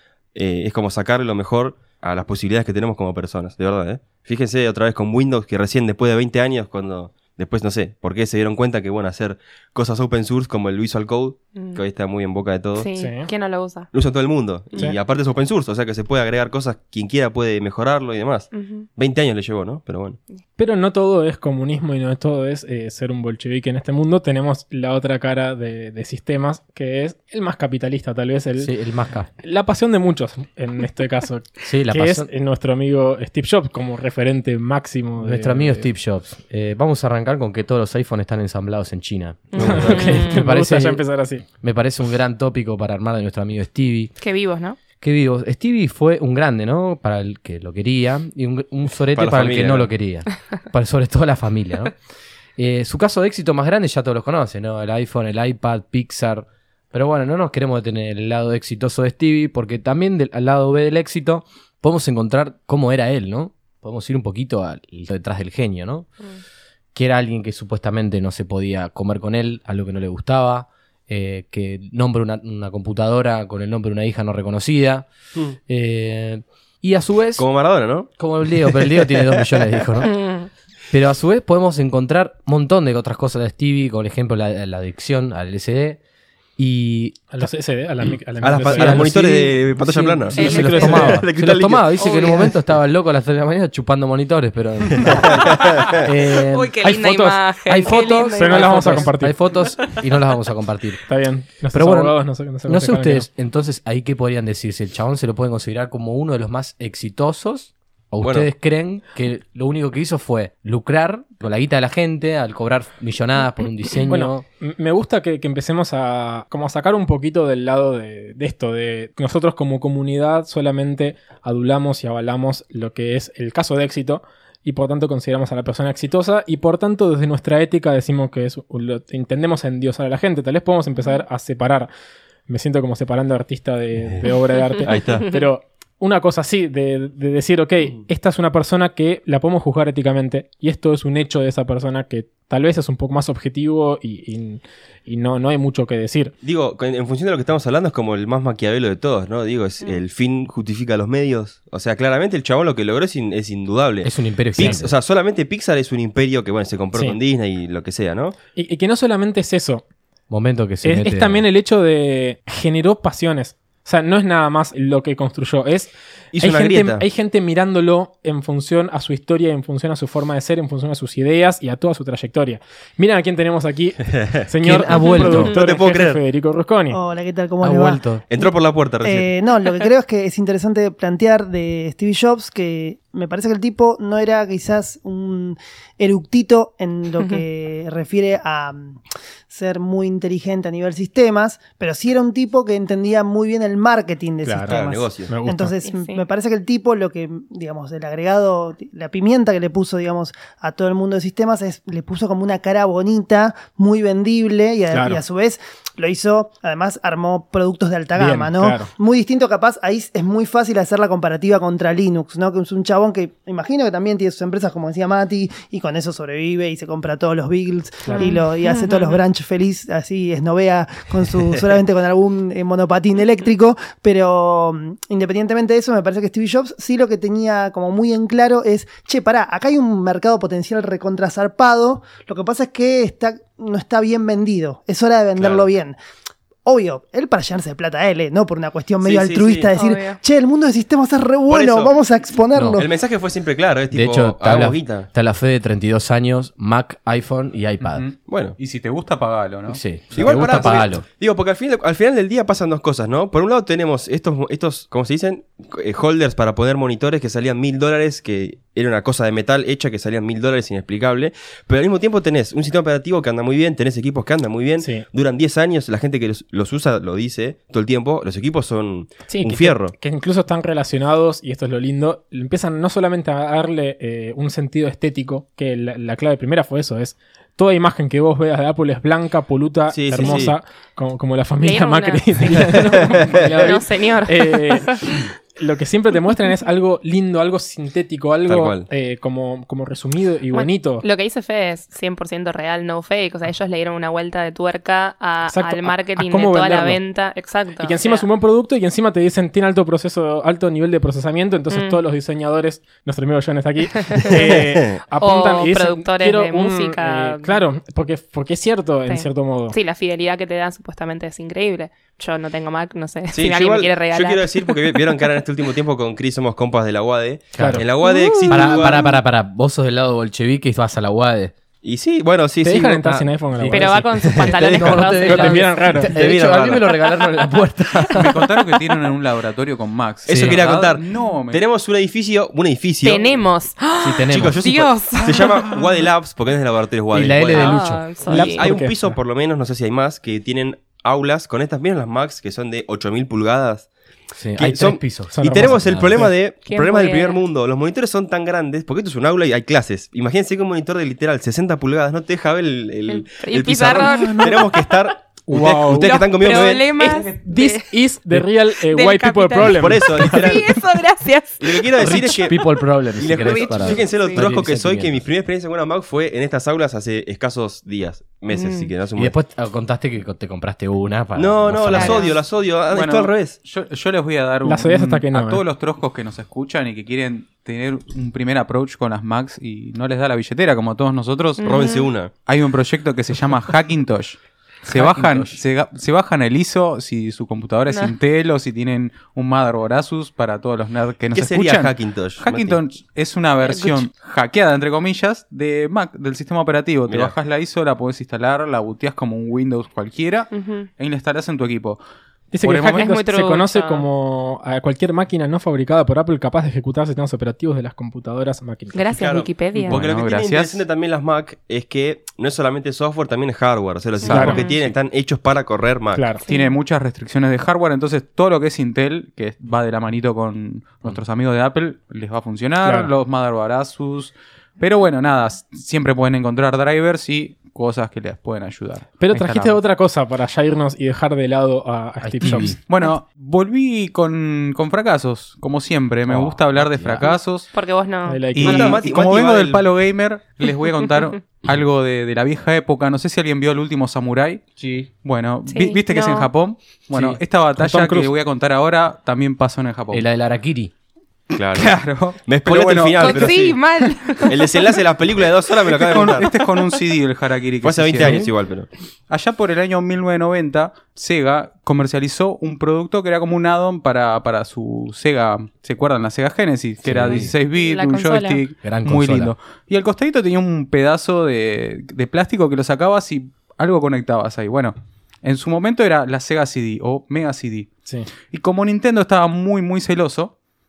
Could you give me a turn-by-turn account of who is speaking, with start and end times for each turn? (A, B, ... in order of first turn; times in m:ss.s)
0:00.3-0:12.9 A
0:11.5-0:11.8 B
0:12.7-0:13.9 B
0:13.0-0:13.3 C
0:13.9-0:20.2 A
0:18.5-0:18.9 B
0:20.6-0:28.7 C
0:28.6-0:29.3 D
0:29.4-0:35.9 C
0:31.6-0:32.3 D
0:35.2-0:41.0 D
0:39.5-0:40.4 B
0:39.6-0:40.0 A
0:39.6-0:41.4 C
0:41.6-0:44.1 D
0:44.2-0:44.8 B
0:45.0-0:51.9 D
0:49.1-0:49.9 A
0:52.6-1:06.1 D
1:06.9-1:15.0 D
1:15.7-1:17.4 D
1:17.4-1:18.1 A
1:18.2-1:20.2 D
1:18.6-1:19.4 A
1:20.1-1:20.5 B
1:20.9-1:26.0 D
1:26.6-1:27.4 D
1:27.3-1:29.2 C
1:28.4-1:32.4 A
1:28.5-1:36.7 D
1:30.3-1:31.2 C
1:30.3-1:31.2 B
1:32.0-1:32.5 B
1:35.0-1:36.0 A
1:36.4-1:40.0 B
1:36.8-1:37.4 C
1:37.7-1:41.0 D
1:38.3-1:39.4 C
1:41.1-1:43.3 C
1:41.7-1:54.4 D
1:48.2-1:48.5 A
1:54.1-2:11.9 C
2:12.5-2:26.3 C
2:14.8-2:15.2 A
2:26.4-2:38.4 A
2:34.0-2:34.9 D
2:38.5-2:39.8 C
2:40.3-2:41.4 D
2:40.8-2:57.0 C
2:46.3-2:47.0 A
2:54.1-2:54.4 A
2:54.6-2:55.5 D
2:55.3-2:56.2 A
2:56.9-3:56.0 E
2:57.6-2:58.2 D
2:58.3-2:59.3 A
3:14.4-3:15.7 C
3:14.6-3:15.3 A
3:15.8-3:16.2 B
3:24.9-3:25.2 C
3:28.2-3:28.9 C
3:38.0-3:38.4 C
3:38.1-3:39.2 B
3:55.4-3:55.7 A
3:56.6-4:02.9 E
3:59.0-3:59.7 A
3:59.7-4:00.2 B
4:01.5-4:01.9 A
4:02.5-4:02.8 D
4:02.8-4:05.1 A
4:03.9-4:08.0 D
4:07.8-4:09.8 F
4:08.3-4:08.6 A
4:09.7-4:11.0 D
4:10.1-4:29.9 A
4:24.8-4:25.0 C
4:29.3-4:51.0 C
4:39.9-4:40.5 A
4:41.6-4:45.2 B
4:43.2-4:43.5 A
4:48.5-4:48.9 A
4:50.5-4:58.2 B
4:55.5-4:57.0 C
4:57.8-5:09.8 C
5:01.7-5:02.0 B
5:04.0-5:04.4 B
5:04.3-5:05.0 A
5:05.2-5:07.6 B
5:09.1-5:15.0 B
5:13.3-5:19.2 A
5:17.5-5:17.9 D
5:17.6-5:17.8 C
5:18.0-5:18.8 B
5:18.5-5:21.5 D
5:21.8-5:23.3 A
5:22.6-5:24.1 C
5:23.6-5:28.5 D
5:23.7-5:25.7 B
5:24.2-5:25.4 A
5:25.2-5:26.1 C
5:26.0-5:26.9 A
5:28.1-5:31.6 F
5:30.3-5:30.6 D
5:30.3-5:33.4 A
5:33.0-5:35.8 B
5:34.0-5:34.7 D
5:34.3-5:43.9 A
5:37.1-5:38.0 D
5:37.5-5:38.7 B
5:38.3-5:39.2 C
5:44.4-5:46.3 D
5:44.6-5:56.9 A
5:45.3-5:46.3 C
5:46.6-5:47.4 B
5:53.1-5:54.9 B
5:53.9-5:54.7 C
5:55.5-5:56.2 C
5:55.9-5:58.0 B
5:57.0-6:00.6 C
5:58.7-6:02.7 B
5:59.6-6:00.8 A
6:01.6-6:02.6 A
6:02.0-6:05.3 D
6:03.2-6:09.3 A
6:03.3-6:04.5 B
6:08.5-6:08.9 B
6:09.2-6:12.3 D
6:11.4-6:13.6 A
6:11.9-6:12.4 B
6:12.9-6:21.9 F
6:14.6-6:15.6 C
6:21.6-6:22.1 B
6:21.6-6:22.3 A
6:22.4-6:42.0 F
6:24.9-6:25.6 D
6:27.9-6:28.1 B
6:31.3-6:32.8 A
6:33.6-6:34.0 B
6:37.1-6:37.3 A
6:40.5-6:40.9 B
6:42.5-6:49.1 C
6:42.6-6:43.1 F
6:42.8-6:44.0 B
6:48.9-6:50.0 B
6:49.1-6:56.3 A
6:49.8-6:50.8 F
6:54.2-6:54.7 F
6:54.2-6:54.8 B
6:54.3-6:54.6 C
6:56.1-6:56.4 C
6:56.4-6:56.7 B
6:56.5-7:09.8 F
7:02.8-7:03.1 C
7:09.2-7:12.7 C
7:12.2-7:12.8 D
7:12.4-7:17.7 F
7:16.3-7:17.4 D
7:17.7-7:19.0 B
7:18.3-7:19.0 C
7:18.5-7:24.7 F
7:18.6-7:19.8 A
7:24.8-7:25.1 D
7:25.2-7:30.3 F
7:25.7-7:26.5 B
7:27.1-7:27.4 D
7:27.8-7:28.3 C
7:30.1-7:30.9 D
7:31.5-7:33.8 A
7:31.7-7:33.5 F
7:33.2-7:34.9 B
7:34.4-7:36.5 A
7:36.0-7:38.4 F
7:37.8-7:38.9 A
7:38.2-7:38.5 D
7:39.3-7:57.9 F
7:47.0-7:47.6 D
7:47.3-7:48.6 B
7:48.8-7:49.5 D
7:58.5-8:00.5 F